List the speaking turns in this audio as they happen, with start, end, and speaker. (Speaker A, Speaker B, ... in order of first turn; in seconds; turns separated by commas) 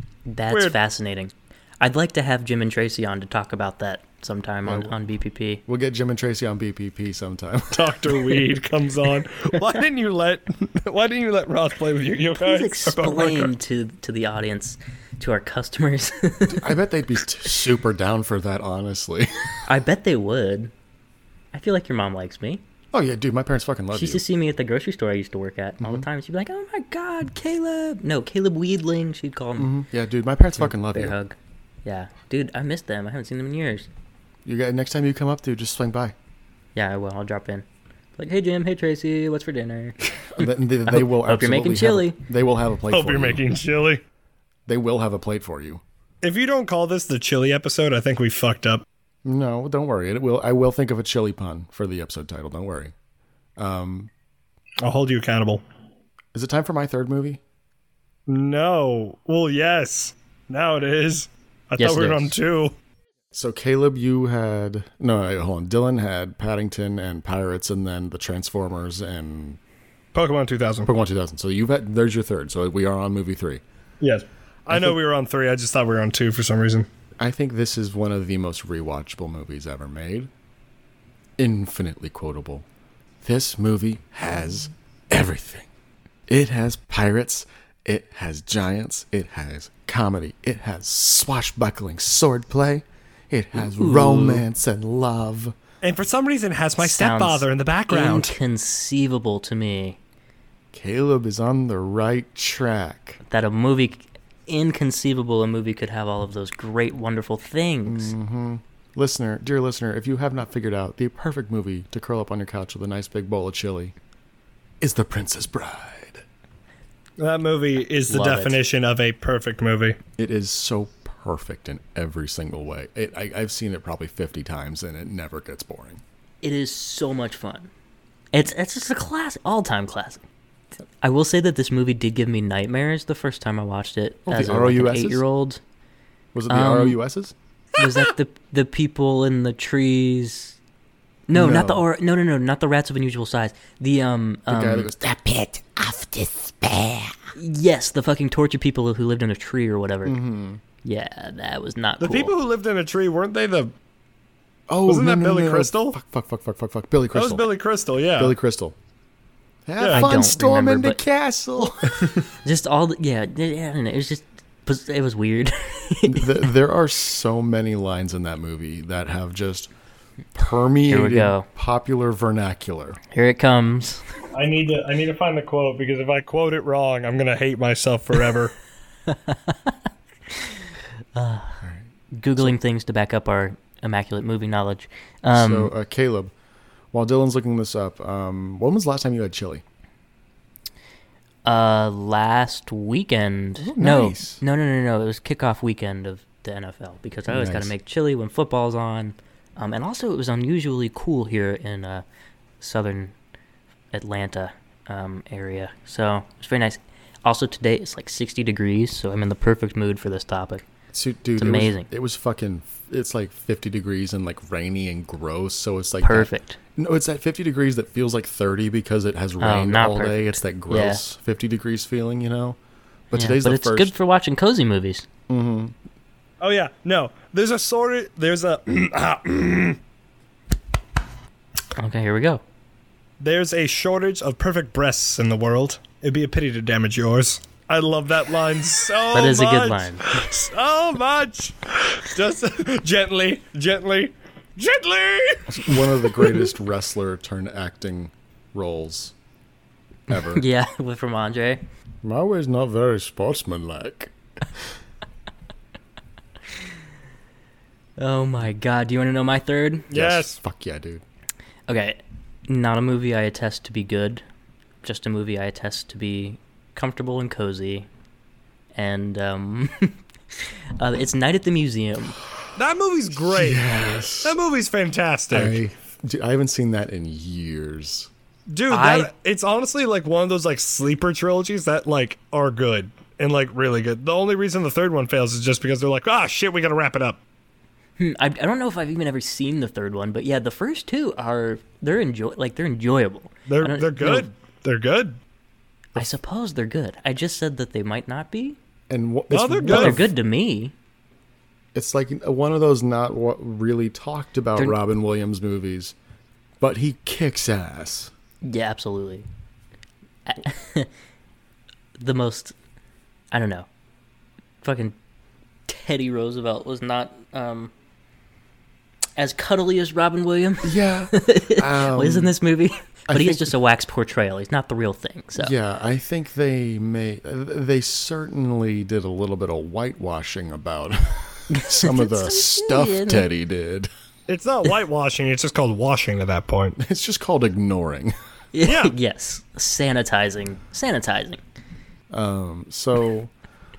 Speaker A: 0.3-5.6, Speaker B: 0.5-0.7, Speaker C: 4.7-4.9, Speaker C: 5.7-8.0, Speaker B: 7.7-13.5, Speaker A: 12.4-16.7, Speaker C: 16.5-19.6, Speaker A: 19.6-20.7, Speaker A: 21.5-22.6, Speaker C: 22.9-24.2, Speaker A: 23.9-29.7, Speaker C: 25.8-26.1, Speaker C: 29.6-31.1, Speaker A: 30.6-33.9, Speaker C: 34.4-36.1, Speaker A: 36.7-37.6, Speaker A: 38.2-42.2, Speaker C: 40.2-43.4, Speaker B: 42.9-44.0, Speaker C: 44.7-45.8, Speaker B: 46.2-48.8, Speaker C: 49.2-52.9, Speaker C: 53.6-54.1, Speaker B: 54.8-55.6, Speaker C: 56.3-57.4, Speaker B: 58.3-62.7, Speaker A: 61.8-62.3, Speaker C: 63.3-69.6, Speaker B: 70.1-70.9, Speaker C: 70.8-73.6, Speaker B: 74.0-76.9, Speaker C: 77.2-80.3, Speaker C: 81.4-82.7, Speaker C: 83.2-85.7, Speaker C: 86.3-95.5, Speaker A: 93.6-94.4, Speaker B: 95.8-98.3, Speaker A: 96.8-100.0, Speaker C: 100.7-103.2, Speaker A: 103.2-108.1, Speaker C: 107.8-113.9, Speaker C: 114.8-116.2, Speaker B: 117.2-120.0, Speaker A: 118.1-118.5, Speaker C: 120.2-126.0, Speaker A: 126.4-127.7, Speaker A: 128.3-130.2, Speaker A: 131.0-135.6, Speaker C: 134.2-135.2, Speaker C: 136.3-137.3, Speaker A: 136.5-137.0, Speaker A: 137.8-140.6, Speaker A: 141.3-144.9, Speaker C: 141.3-141.8, Speaker C: 144.5-147.2, Speaker A: 147.3-150.2, Speaker C: 150.0-150.6, Speaker A: 150.8-152.3, Speaker B: 152.0-153.7, Speaker C: 154.7-157.5, Speaker B: 154.9-156.0, Speaker B: 157.1-158.3, Speaker C: 158.2-158.8, Speaker C: 159.7-162.1, Speaker B: 159.8-160.1, Speaker A: 159.9-161.0, Speaker A: 162.4-166.5, Speaker C: 166.1-169.7, Speaker C: 170.3-173.0, Speaker A: 170.9-171.5, Speaker A: 173.1-174.0, Speaker B: 174.3-178.5, Speaker A: 179.1-179.8, Speaker A: 180.3-180.6, Speaker A: 181.1-185.7, Speaker C: 181.6-182.6, Speaker C: 185.3-186.3, Speaker C: 186.9-189.6, Speaker A: 191.4-202.0, Speaker C: 193.6-194.4, Speaker C: 197.3-197.7, Speaker A: 202.6-203.1, Speaker A: 203.9-210.7, Speaker C: 210.9-222.6, Speaker A: 211.3-211.9, Speaker A: 216.0-216.6, Speaker A: 219.4-221.0, Speaker C: 223.1-223.9, Speaker A: 223.1-225.1, Speaker C: 225.3-225.7, Speaker B: 226.4-229.8, Speaker A: 231.8-232.4, Speaker B: 233.2-246.3, Speaker A: 239.1-240.2, Speaker C: 245.5-249.1, Speaker C: 250.1-250.4, Speaker A: 250.1-251.6, Speaker C: 252.0-254.6, Speaker A: 258.0-259.9, Speaker B: 259.9-260.4, Speaker C: 259.9-261.0, Speaker A: 261.7-264.2, Speaker A: 264.8-267.9, Speaker A: 268.7-272.2, Speaker B: 272.6-275.6, Speaker C: 273.3-274.4, Speaker C: 275.3-278.1, Speaker B: 278.5-287.2, Speaker A: 278.7-279.1, Speaker A: 288.0-294.3, Speaker B: 293.5-295.2, Speaker A: 295.9-298.6, Speaker C: 298.9-300.1, Speaker B: 299.3-300.0, Speaker A: 299.7-300.7, Speaker C: 301.7-305.9, Speaker C: 306.6-308.1, Speaker A: 308.4-309.2, Speaker A: 310.2-310.9, Speaker A: 312.0-312.5, Speaker A: 313.3-313.7, Speaker A: 314.6-314.9, Speaker A: 315.7-317.7, Speaker A: 319.2-325.5, Speaker C: 320.6-322.3, Speaker C: 323.1-323.5, Speaker C: 325.4-333.9, Speaker A: 331.5-333.3, Speaker B: 334.3-336.8, Speaker C: 336.8-338.1, Speaker A: 338.5-341.4, Speaker B: 338.6-338.9, Speaker C: 342.1-343.3